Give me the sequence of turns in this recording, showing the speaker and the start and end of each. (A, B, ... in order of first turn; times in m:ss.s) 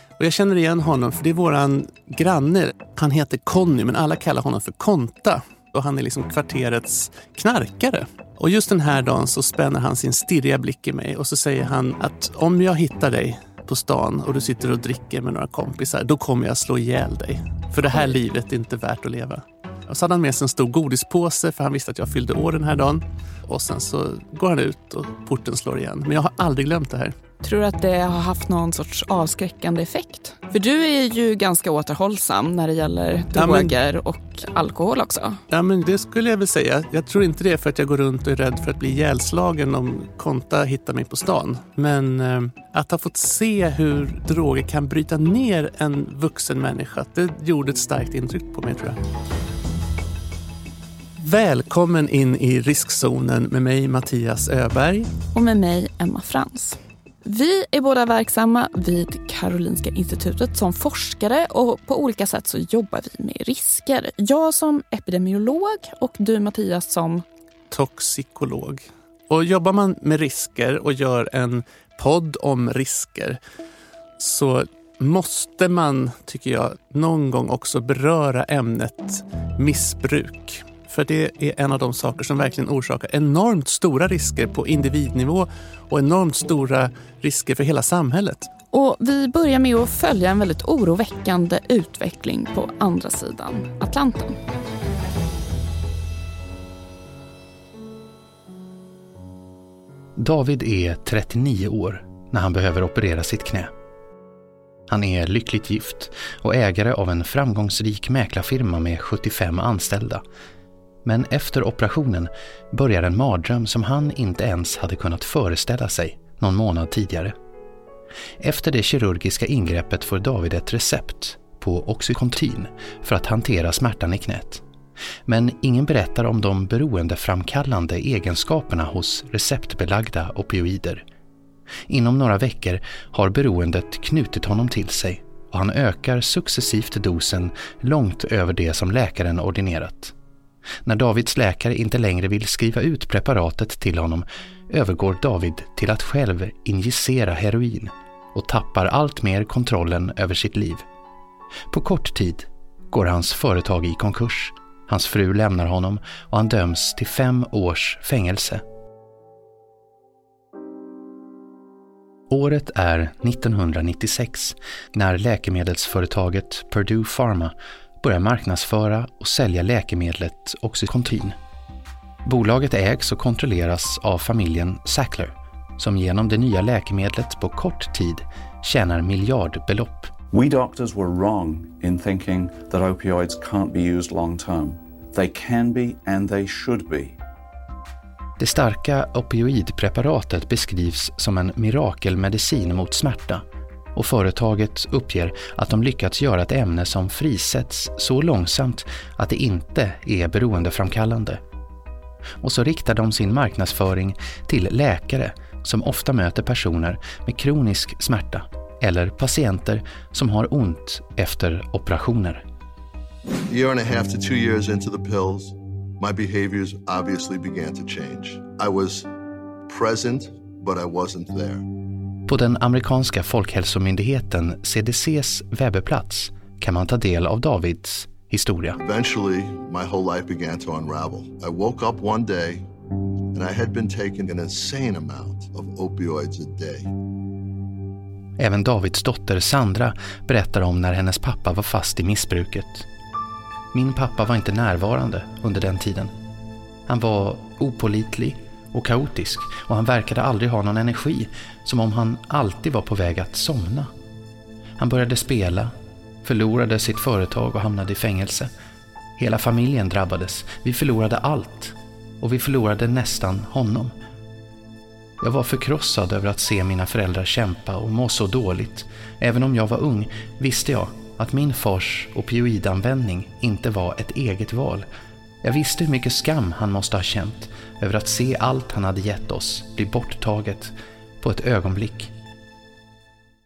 0:00.2-0:27.2 A
0:27.4-0:35.4 B
0:33.4-0:33.7 A
0:35.5-0:49.0 A
0:51.2-0:55.1 A
0:55.3-1:07.2 B
1:07.7-1:13.4 A
1:14.2-1:28.5 A
1:28.7-1:34.4 B
1:40.2-1:43.7 C
1:44.9-1:50.2 C
1:51.0-1:57.3 C
1:58.4-2:04.6 C
2:05.3-2:11.0 C
2:11.9-2:20.1 C
2:20.8-2:30.9 C
2:31.7-2:38.6 C
2:42.3-2:51.4 C
2:52.2-3:00.1 C
3:00.3-3:07.2 D
3:08.4-3:13.4 C
3:14.0-3:21.4 C
3:22.4-3:32.4 C
3:33.5-3:39.1 E
3:39.7-3:41.6 E
3:42.3-3:48.8 C
3:48.8-3:52.7 E
3:53.3-3:56.9 E
3:58.4-4:02.9 C
4:03.7-4:06.1 C
4:06.9-4:13.9 C
4:14.8-4:15.7 C
4:16.2-4:18.5 C
4:19.2-4:23.9 C
4:25.2-4:34.9 C
4:35.4-4:42.1 C